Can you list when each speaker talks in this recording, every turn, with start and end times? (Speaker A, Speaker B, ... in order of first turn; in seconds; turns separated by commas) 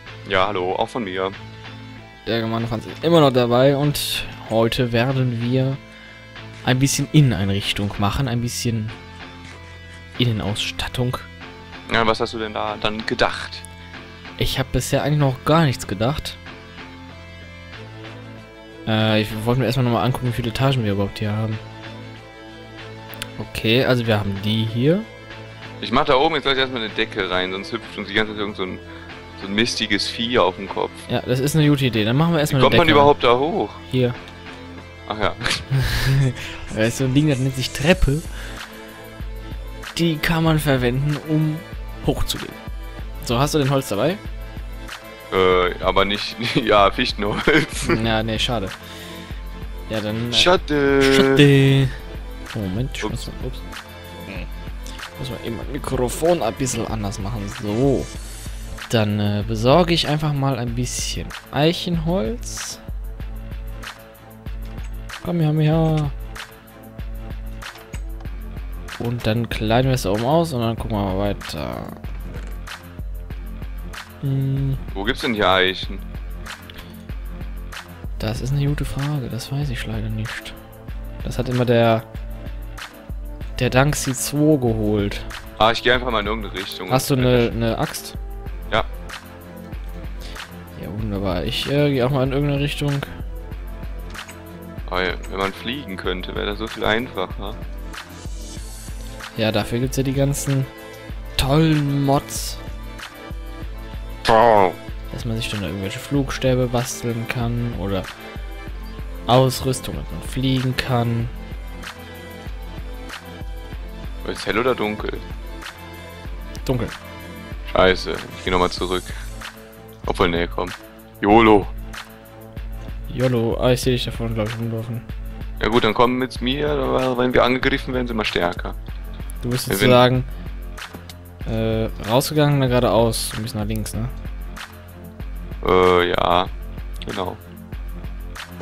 Speaker A: 0.2-1.4, Speaker B: 2.3-5.8, Speaker B: 6.6-8.9, Speaker B: 10.2-11.3, Speaker A: 11.9-13.7, Speaker B: 14.4-16.4, Speaker B: 18.9-21.6, Speaker B: 23.4-25.1, Speaker A: 25.8-28.8, Speaker A: 29.4-31.1, Speaker B: 31.1-33.1, Speaker A: 32.5-33.8, Speaker B: 33.9-34.2, Speaker A: 35.1-35.7, Speaker B: 35.8-38.6, Speaker B: 40.0-42.6, Speaker B: 43.2-44.2, Speaker A: 45.3-48.0, Speaker B: 47.8-48.8, Speaker B: 49.9-52.0, Speaker A: 50.3-51.4, Speaker B: 52.5-53.7, Speaker B: 55.2-58.1, Speaker B: 58.9-62.8, Speaker B: 65.2-66.1, Speaker B: 69.0-72.0, Speaker B: 74.2-74.8, Speaker A: 74.9-76.1, Speaker B: 78.2-80.6, Speaker B: 81.2-82.1, Speaker B: 83.6-85.3, Speaker A: 85.6-87.5, Speaker B: 86.9-88.2, Speaker B: 90.8-93.1, Speaker A: 94.9-97.6, Speaker B: 99.3-100.7, Speaker B: 101.4-102.6, Speaker A: 104.2-104.8, Speaker B: 105.1-108.1, Speaker B: 109.3-111.3, Speaker A: 114.2-115.3, Speaker B: 116.7-116.9, Speaker A: 117.7-119.1, Speaker A: 120.0-121.7, Speaker B: 123.1-125.1, Speaker A: 125.6-128.8, Speaker B: 129.4-130.3, Speaker A: 129.7-130.0, Speaker B: 131.5-134.1, Speaker A: 135.6-136.5, Speaker A: 137.1-137.4